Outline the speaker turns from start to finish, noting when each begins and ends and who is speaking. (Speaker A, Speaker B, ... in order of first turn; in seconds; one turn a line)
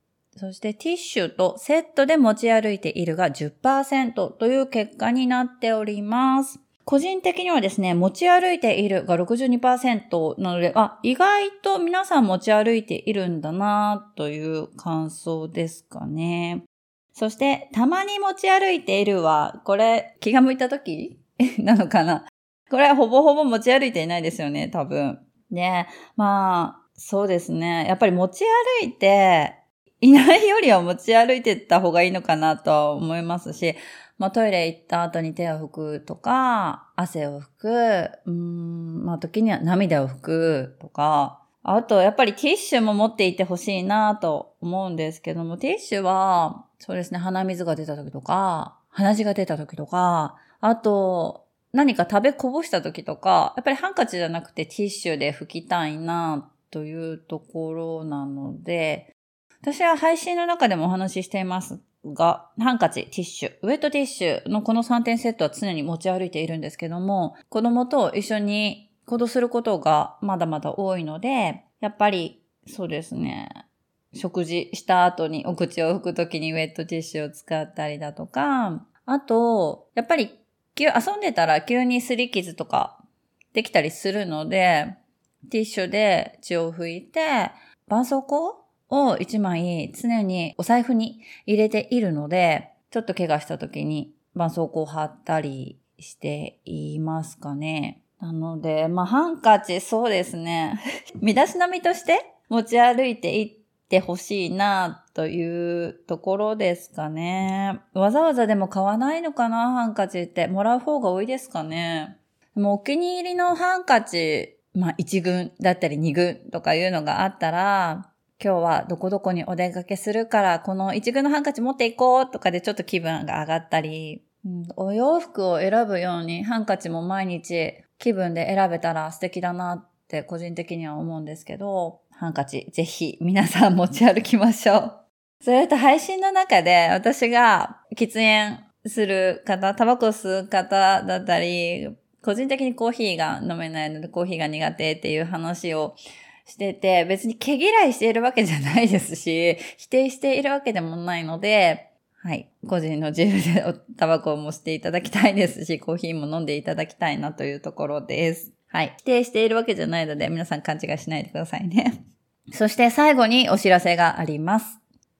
Speaker A: 0.3-59.1
Speaker A: 59.6-73.5
Speaker A: 74.1-83.0
Speaker A: 83.5-161.9
Speaker A: 162.5-164.8